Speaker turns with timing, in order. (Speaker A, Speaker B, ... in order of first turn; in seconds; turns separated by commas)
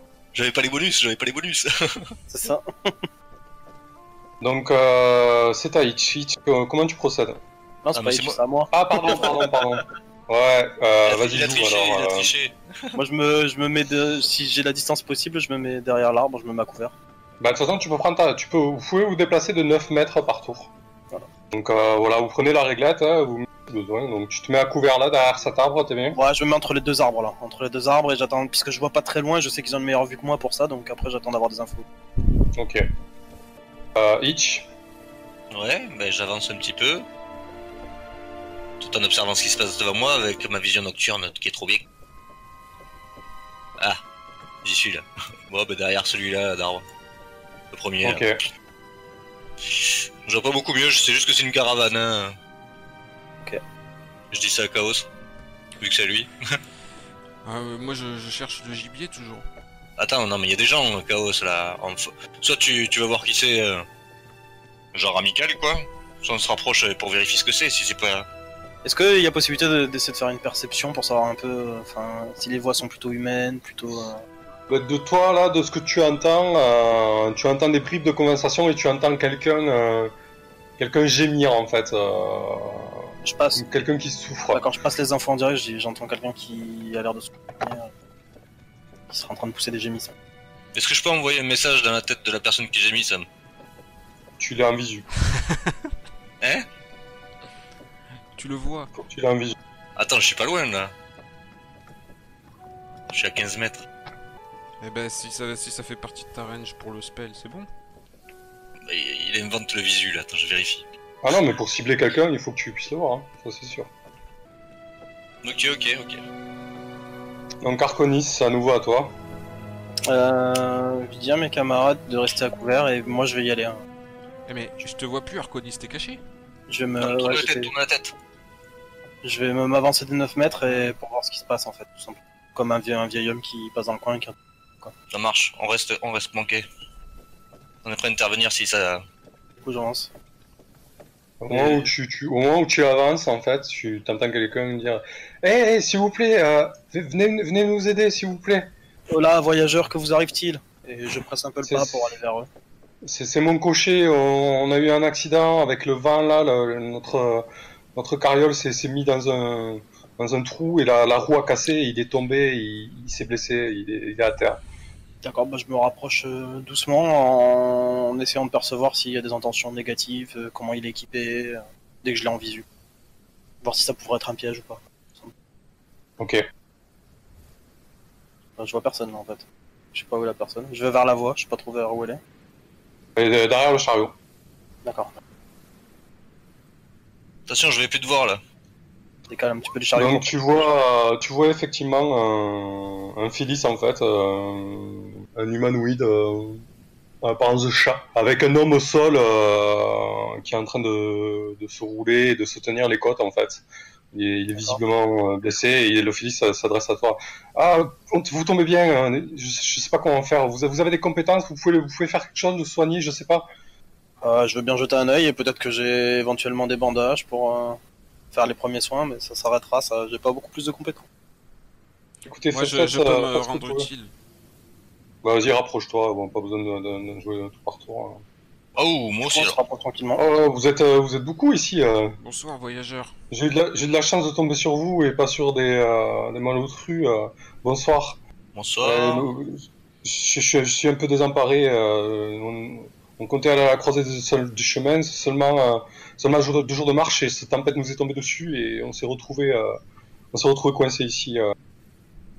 Speaker A: 0.3-2.1, Speaker B: 2.3-3.0, Speaker C: 4.4-7.4, Speaker B: 7.8-9.8, Speaker A: 7.9-8.4, Speaker C: 8.7-12.3, Speaker A: 11.1-13.0, Speaker B: 12.9-16.9, Speaker C: 17.4-20.7, Speaker C: 21.5-26.2, Speaker B: 26.1-31.8, Speaker C: 32.5-32.8, Speaker C: 33.9-34.7, Speaker A: 35.5-37.0, Speaker A: 38.8-41.8, Speaker A: 44.6-46.8, Speaker A: 47.7-48.3, Speaker C: 48.0-48.4, Speaker A: 49.7-52.4, Speaker A: 54.3-55.0, Speaker A: 55.8-56.6, Speaker D: 57.4-59.4, Speaker A: 60.0-63.9, Speaker A: 64.9-68.3, Speaker B: 68.8-74.2, Speaker C: 74.7-80.1, Speaker C: 80.8-84.6, Speaker B: 83.2-83.6, Speaker B: 84.5-87.9, Speaker B: 89.1-90.1, Speaker A: 90.7-93.3, Speaker C: 94.4-95.1, Speaker D: 95.3-95.7, Speaker A: 96.4-96.7, Speaker D: 98.3-98.9, Speaker C: 98.9-99.5, Speaker A: 100.0-100.9, Speaker A: 103.1-103.8, Speaker D: 104.8-107.7, Speaker A: 108.8-110.8, Speaker C: 111.2-113.9, Speaker A: 115.4-116.2, Speaker C: 117.6-119.1, Speaker B: 120.1-123.8, Speaker D: 124.5-126.2, Speaker B: 126.7-127.7, Speaker A: 127.0-128.1, Speaker B: 129.2-134.9, Speaker A: 135.1-136.7, Speaker A: 137.8-139.0, Speaker B: 139.6-140.1, Speaker C: 141.4-148.7, Speaker B: 141.5-141.9, Speaker B: 149.1-152.5, Speaker C: 151.6-152.2, Speaker C: 153.0-164.6, Speaker B: 165.2-172.6, Speaker B: 173.6-175.3, Speaker B: 178.6-182.2, Speaker C: 183.2-184.1, Speaker B: 184.8-185.1, Speaker A: 187.5-188.4, Speaker B: 189.3-190.6, Speaker C: 189.9-196.6, Speaker C: 197.2-213.5, Speaker B: 214.2-217.8, Speaker B: 218.3-221.1, Speaker C: 222.2-223.9, Speaker D: 222.5-224.1, Speaker C: 225.2-228.2, Speaker A: 228.8-229.6, Speaker B: 229.2-230.2, Speaker C: 230.2-232.2, Speaker D: 232.2-233.1, Speaker C: 233.3-238.2, Speaker A: 238.5-239.3, Speaker C: 238.8-249.8, Speaker C: 250.3-251.5